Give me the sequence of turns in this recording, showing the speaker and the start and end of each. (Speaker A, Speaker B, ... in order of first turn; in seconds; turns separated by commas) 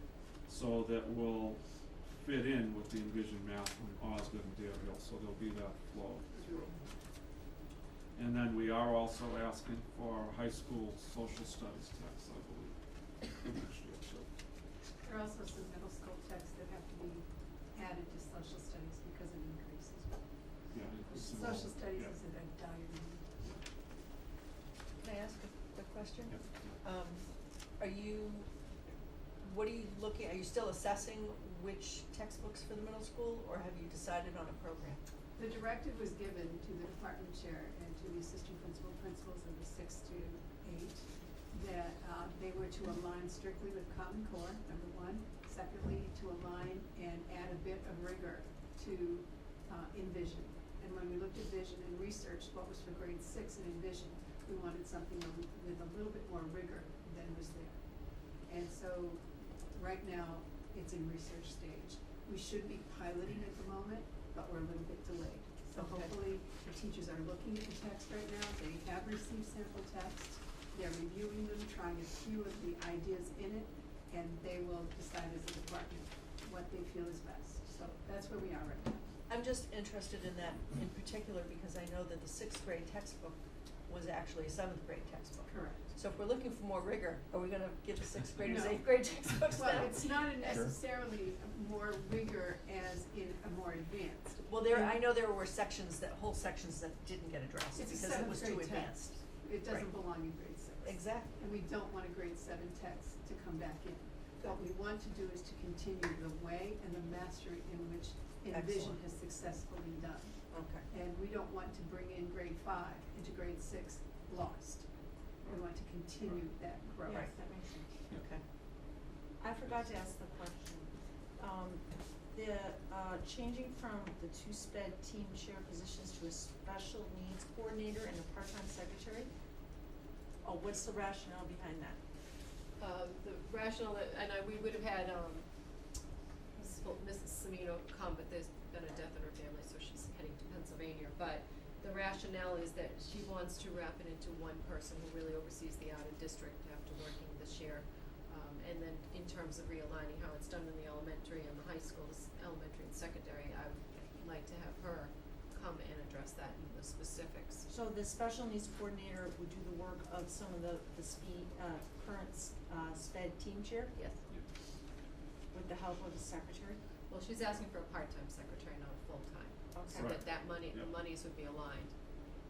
Speaker A: 0.5-6.7, Speaker B: 6.3-6.8, Speaker A: 8.2-14.3, Speaker B: 15.0-20.2, Speaker A: 20.7-22.1, Speaker B: 21.1-23.2, Speaker C: 25.0-27.2, Speaker C: 27.8-28.5, Speaker C: 29.4-35.0, Speaker B: 35.4-57.8, Speaker B: 58.5-79.1, Speaker C: 65.8-66.1, Speaker C: 79.3-83.3, Speaker C: 83.9-90.7, Speaker B: 85.5-85.9, Speaker B: 88.4-88.9, Speaker B: 89.5-95.0, Speaker C: 94.5-100.1, Speaker B: 97.7-110.3, Speaker C: 100.8-101.4, Speaker C: 108.5-109.0, Speaker C: 110.5-110.9, Speaker B: 110.9-114.8, Speaker B: 115.4-117.3, Speaker D: 117.0-117.9, Speaker C: 118.1-118.4, Speaker D: 119.4-129.3, Speaker D: 130.4-132.0, Speaker E: 132.8-135.5, Speaker E: 136.6-157.6, Speaker D: 157.7-163.9, Speaker E: 163.9-164.2, Speaker D: 165.5-166.8, Speaker E: 167.1-171.9, Speaker D: 169.7-170.2, Speaker A: 169.9-170.9